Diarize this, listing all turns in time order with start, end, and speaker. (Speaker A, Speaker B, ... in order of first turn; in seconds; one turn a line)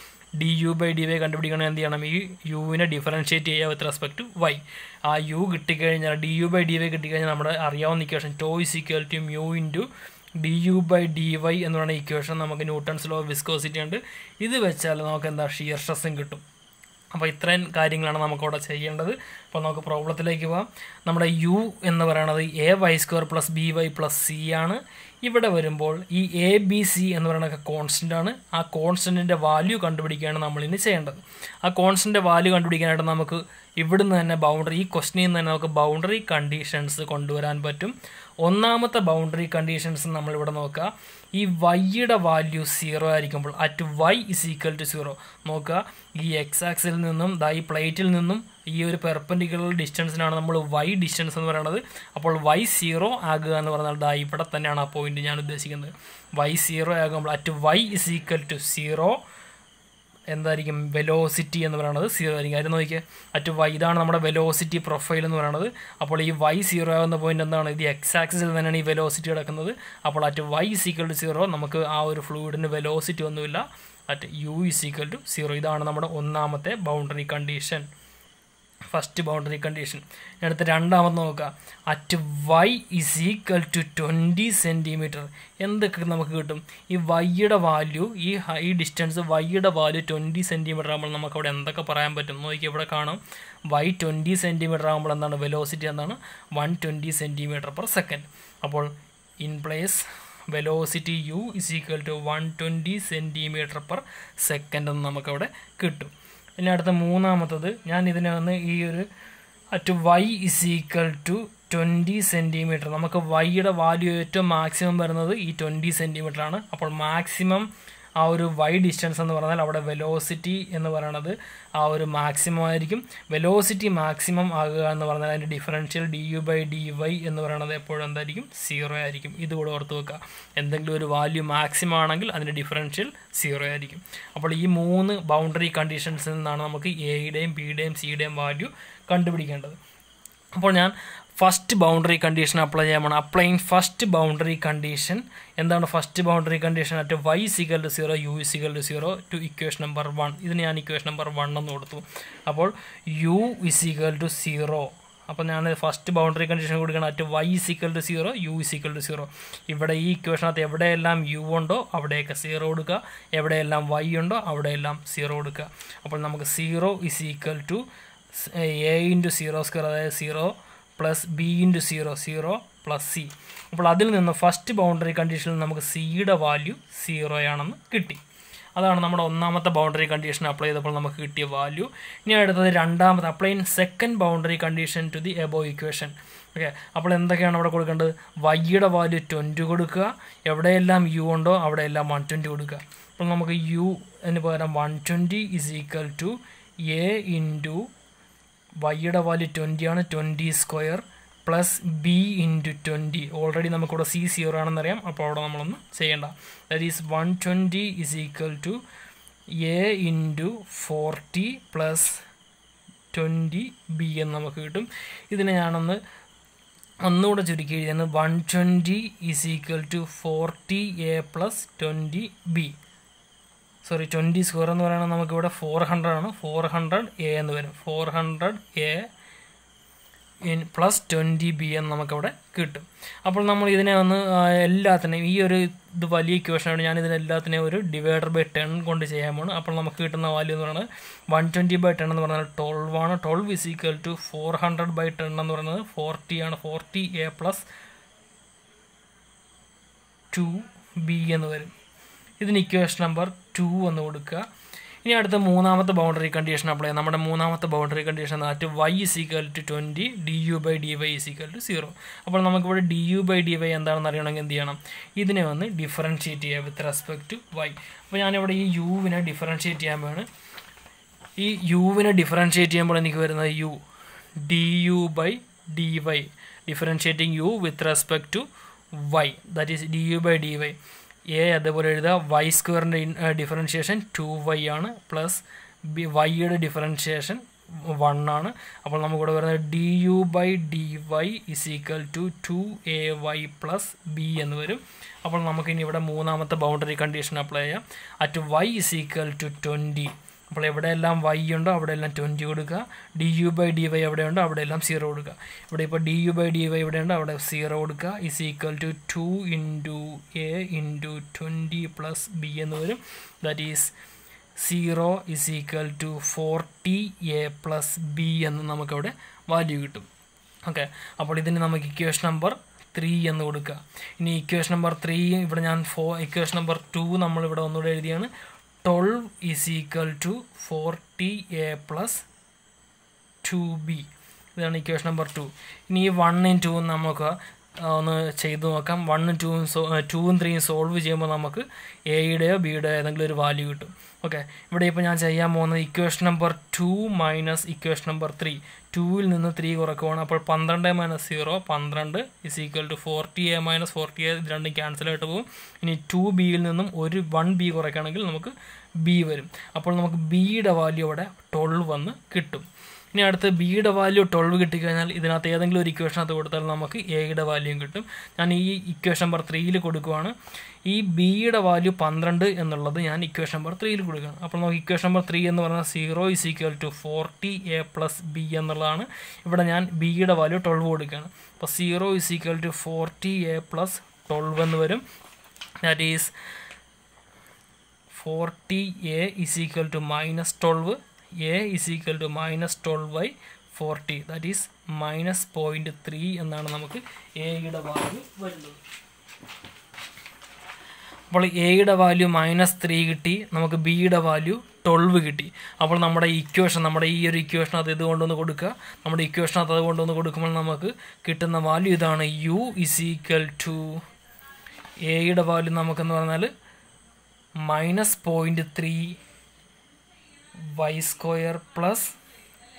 Speaker A: 0.4-9.9
Speaker A: 10.4-16.4
Speaker A: 17.1-59.2
Speaker A: 60.3-77.9
Speaker A: 78.9-98.9
Speaker A: 99.4-109.1
Speaker A: 109.7-139.8
Speaker A: 140.6-178.2
Speaker A: 178.8-197.9
Speaker A: 198.8-208.8
Speaker A: 209.6-212.2
Speaker A: 213.1-216.0
Speaker A: 217.0-222.8
Speaker A: 223.8-229.1
Speaker A: 230.4-247.7
Speaker A: 250.3-251.7
Speaker A: 252.4-254.5
Speaker A: 255.0-270.3
Speaker A: 271.4-273.8
Speaker A: 274.4-280.8
Speaker A: 281.3-313.9
Speaker A: 314.6-320.1
Speaker A: 320.7-328.3
Speaker A: 328.8-332.3
Speaker A: 333.4-370.3
Speaker A: 370.9-385.0
Speaker A: 385.8-386.3
Speaker A: 388.1-398.8
Speaker A: 401.3-414.0
Speaker A: 415.0-416.5
Speaker A: 417.6-419.2
Speaker A: 420.6-422.2